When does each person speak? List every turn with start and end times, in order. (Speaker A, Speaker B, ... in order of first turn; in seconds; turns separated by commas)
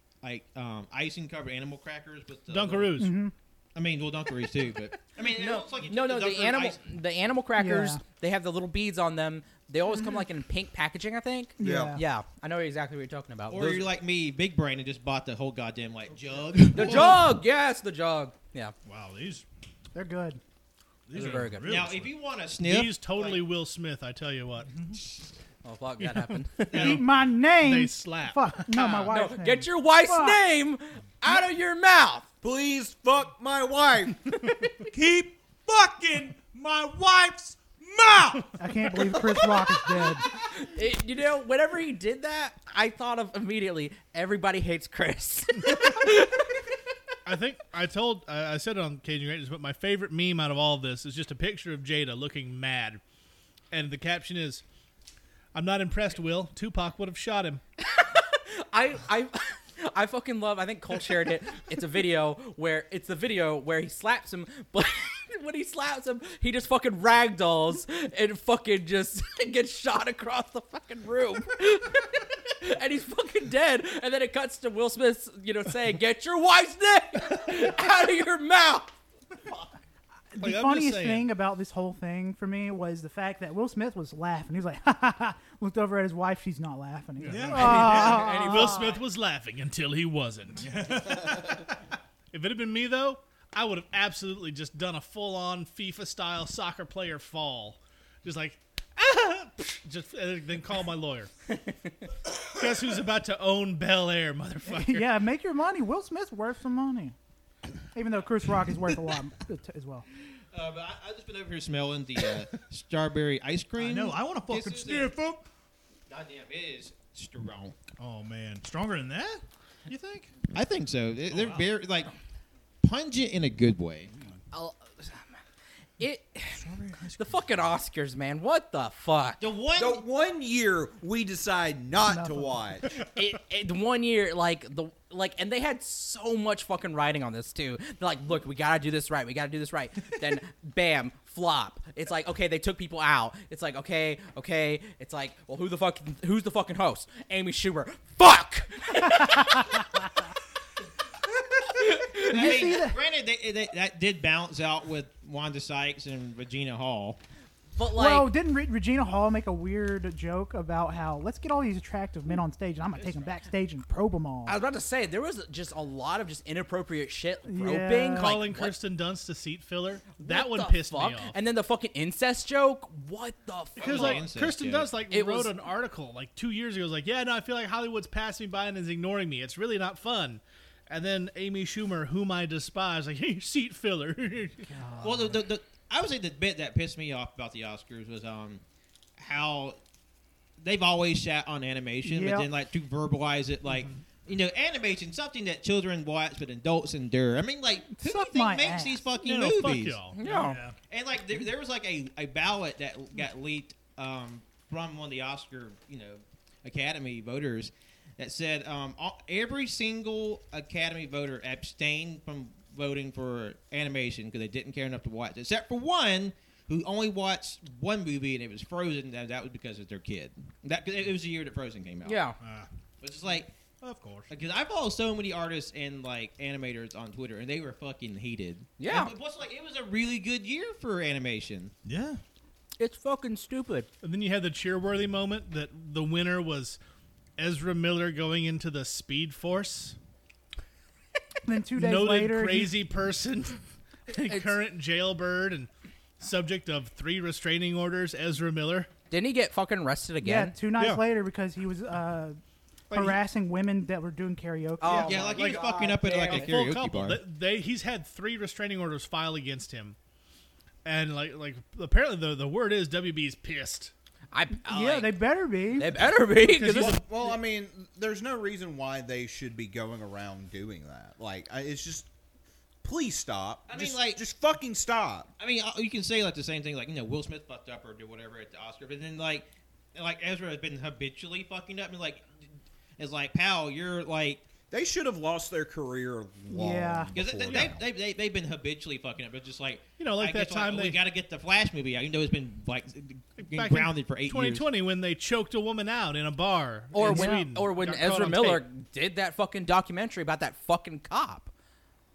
Speaker A: 0.2-3.0, Speaker B: 2.5-3.2, Speaker C: 3.0-3.3, Speaker A: 3.7-6.8, Speaker D: 5.2-13.9, Speaker C: 7.6-8.0, Speaker C: 11.6-12.0, Speaker E: 11.6-12.0, Speaker A: 13.5-17.3, Speaker F: 16.5-17.2, Speaker D: 16.7-18.7, Speaker F: 18.8-19.4, Speaker C: 19.9-20.4, Speaker F: 21.1-22.1, Speaker D: 21.1-21.8, Speaker A: 21.6-23.4, Speaker B: 22.6-24.7, Speaker F: 24.7-25.0, Speaker D: 25.6-27.0, Speaker B: 26.0-28.9, Speaker C: 26.7-30.4, Speaker D: 28.7-32.2, Speaker E: 32.4-34.2, Speaker F: 34.9-39.6, Speaker C: 38.6-40.3, Speaker D: 40.5-46.5, Speaker B: 47.2-53.0, Speaker B: 53.7-54.6, Speaker B: 55.5-57.6, Speaker D: 57.8-78.9, Speaker C: 80.3-89.0, Speaker B: 80.4-81.3, Speaker B: 87.2-90.7, Speaker F: 87.3-88.3, Speaker D: 87.5-89.0, Speaker F: 90.6-91.7, Speaker B: 92.3-101.3, Speaker D: 101.6-101.9, Speaker B: 102.4-105.1, Speaker C: 104.7-107.1, Speaker C: 107.9-110.0, Speaker A: 110.5-115.1, Speaker F: 113.8-115.5, Speaker A: 116.1-117.8, Speaker F: 118.0-120.3, Speaker A: 120.5-122.1, Speaker F: 121.3-121.7, Speaker A: 122.8-124.1, Speaker D: 124.5-125.3, Speaker D: 126.0-129.4, Speaker F: 126.5-127.4, Speaker A: 129.4-130.0, Speaker E: 129.7-132.9, Speaker C: 132.1-132.6, Speaker D: 132.9-149.7, Speaker D: 151.8-152.6, Speaker A: 152.1-157.2, Speaker C: 152.3-153.0, Speaker D: 157.8-158.3, Speaker C: 157.9-164.6, Speaker D: 164.4-168.8, Speaker C: 167.4-168.4, Speaker B: 168.1-171.3, Speaker D: 170.2-174.2, Speaker B: 173.8-184.7, Speaker A: 173.8-174.9, Speaker D: 175.1-175.6, Speaker C: 184.7-185.4, Speaker A: 185.0-188.6, Speaker A: 189.2-189.8, Speaker A: 190.6-200.0, Speaker C: 192.0-192.5, Speaker C: 197.9-199.1, Speaker B: 199.2-200.2, Speaker D: 200.1-200.6, Speaker F: 200.2-200.8, Speaker A: 200.9-222.2, Speaker D: 222.0-222.4, Speaker F: 222.4-222.7, Speaker A: 223.0-223.5, Speaker F: 223.8-224.3, Speaker A: 224.3-231.7, Speaker D: 228.8-229.1, Speaker F: 231.8-232.2, Speaker D: 232.8-233.9, Speaker B: 234.0-236.8, Speaker B: 237.4-239.9, Speaker C: 241.4-242.8, Speaker B: 241.7-245.7, Speaker D: 244.2-244.5, Speaker B: 246.2-248.9, Speaker D: 249.1-250.5, Speaker C: 250.2-252.4, Speaker B: 250.7-251.0, Speaker B: 252.9-253.2, Speaker C: 252.9-255.7, Speaker D: 254.8-256.6, Speaker A: 254.9-257.2, Speaker B: 256.3-259.9, Speaker B: 260.8-263.9, Speaker D: 264.3-265.2, Speaker C: 264.7-266.0, Speaker D: 265.7-267.0, Speaker B: 266.4-267.1, Speaker E: 266.7-272.1, Speaker E: 272.8-275.3, Speaker A: 273.7-274.2, Speaker A: 275.4-282.2, Speaker A: 283.0-284.4, Speaker E: 284.7-287.8, Speaker C: 286.5-287.1, Speaker A: 287.1-294.7, Speaker B: 290.0-291.0, Speaker B: 293.4-298.6, Speaker D: 296.9-301.5, Speaker C: 297.0-297.4